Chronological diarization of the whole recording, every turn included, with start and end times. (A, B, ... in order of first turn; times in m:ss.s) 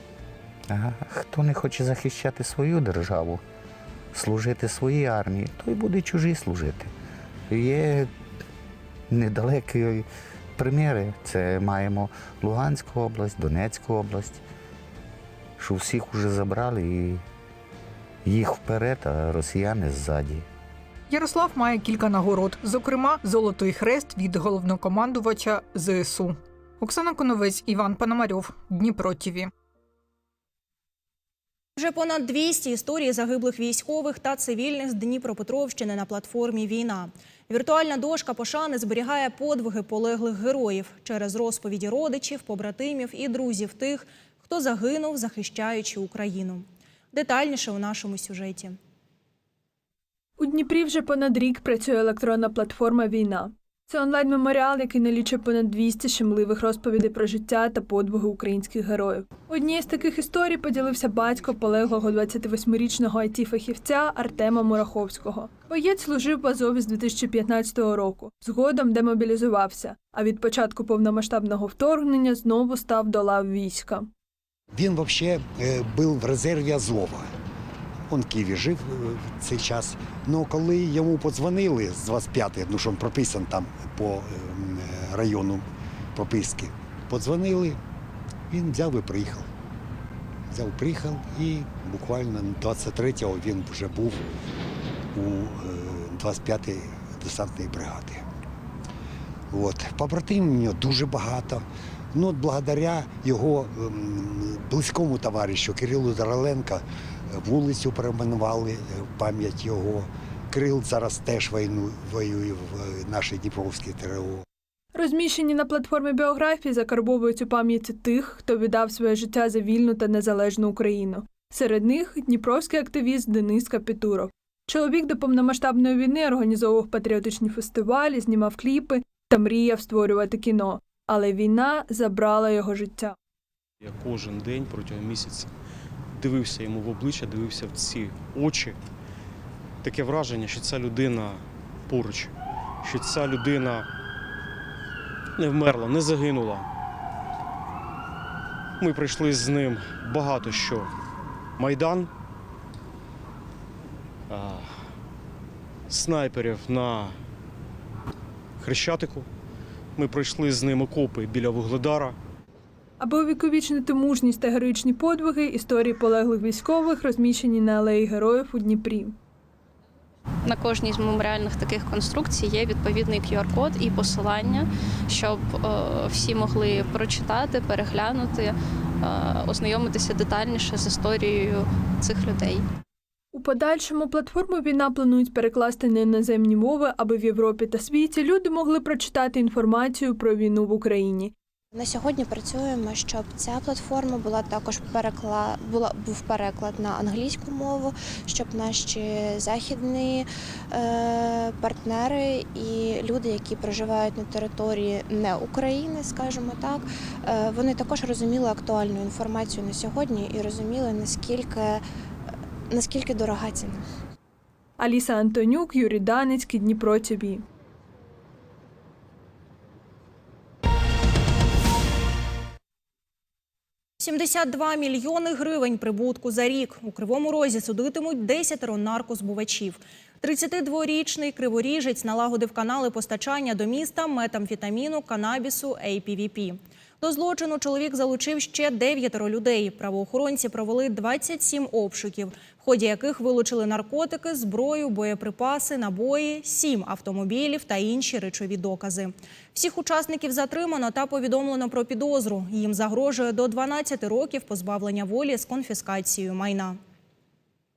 0:00.7-0:03.4 A
0:04.1-0:06.9 A
0:07.5-0:08.1 A
0:09.1-0:14.4 A
0:15.6-0:17.2 A
0:18.2-0:20.5 A
0:21.1-0:29.5 B
0:31.8-0:48.8 C
0:50.4-1:14.1 D
1:14.7-1:17.3 E
1:18.1-1:27.8 E
1:28.5-1:29.5 E
1:30.5-1:34.2 E
1:35.1-1:38.2 E
1:39.5-1:54.4 E
1:54.9-2:13.1 D
2:13.8-2:15.5 F
2:16.1-2:18.8 F
2:19.8-2:23.9 F
2:25.4-2:26.7 F
2:28.8-2:30.9 F
2:31.6-2:32.1 F
2:34.3-2:34.8 F
2:35.9-2:37.2 F
2:38.6-2:39.3 F
2:40.0-2:42.2 F
2:43.0-2:49.2 D
2:50.4-3:02.6 G
3:03.3-3:11.3 D
3:11.7-3:31.8 H
3:32.7-3:33.9 H
3:34.8-3:37.4 D
3:44.0-4:16.8 C